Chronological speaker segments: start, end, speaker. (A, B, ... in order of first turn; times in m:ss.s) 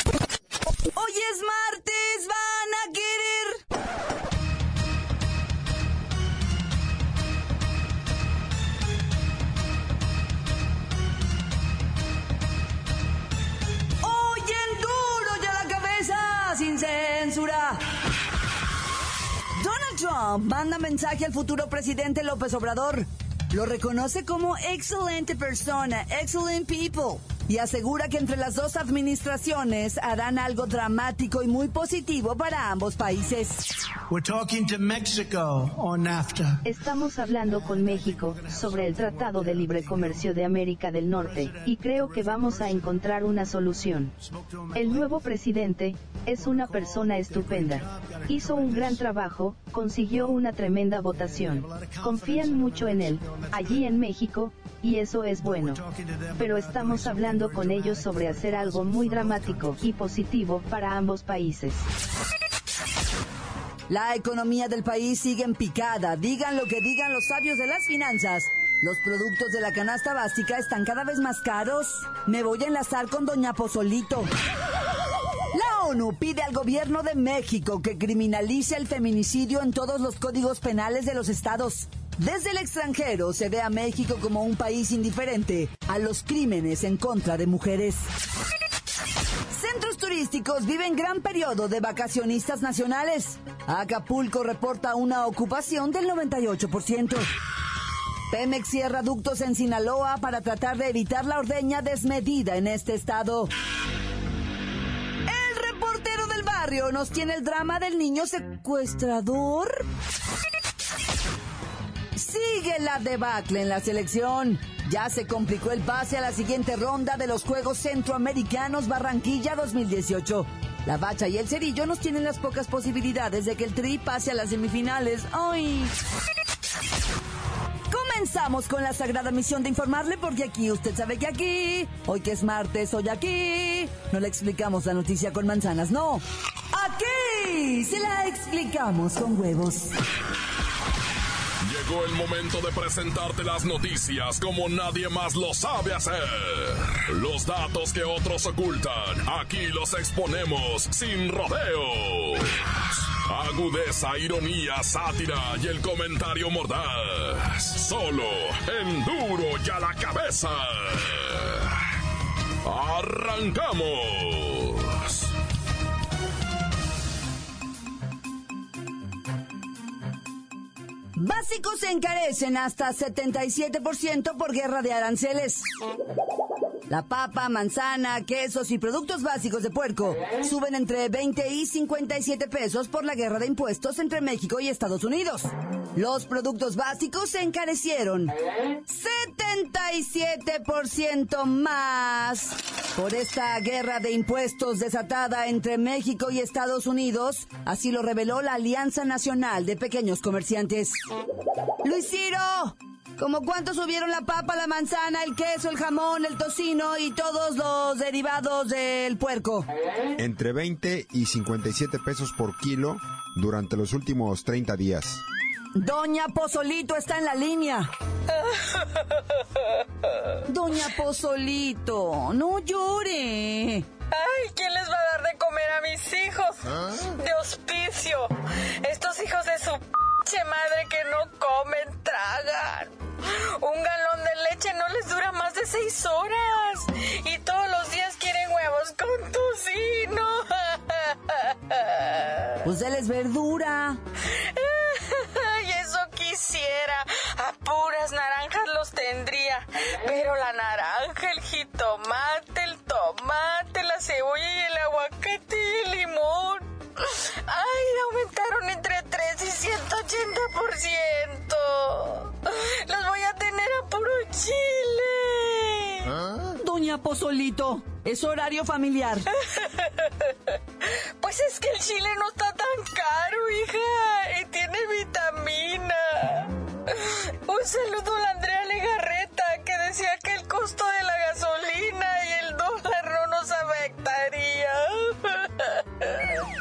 0:00.9-0:03.6 A
0:14.0-0:17.8 A
0:19.6-0:33.6 A
0:34.1-0:36.6 B
0:36.6-0:44.1 C
0:44.7-0:55.8 C
0:56.4-1:01.9 C
1:03.9-1:14.3 A
1:15.5-1:28.1 A
1:29.5-1:37.3 A
1:38.3-1:43.5 A
1:45.3-1:49.9 A
1:52.2-2:05.9 A
2:07.9-2:20.0 A
2:21.6-2:41.7 D
2:42.6-2:45.3 D
2:51.2-2:55.6 A
2:56.9-3:08.4 A
3:08.9-3:21.0 A
3:21.8-3:29.7 A
3:30.2-3:35.2 E
3:35.8-3:37.9 A
3:38.3-3:40.3 F
3:40.5-3:43.9 A
3:44.1-4:02.6 F
4:02.6-4:04.0 A
4:04.3-4:26.1 F
4:26.6-4:29.3 A
4:29.4-4:30.6 F
4:31.2-4:46.4 F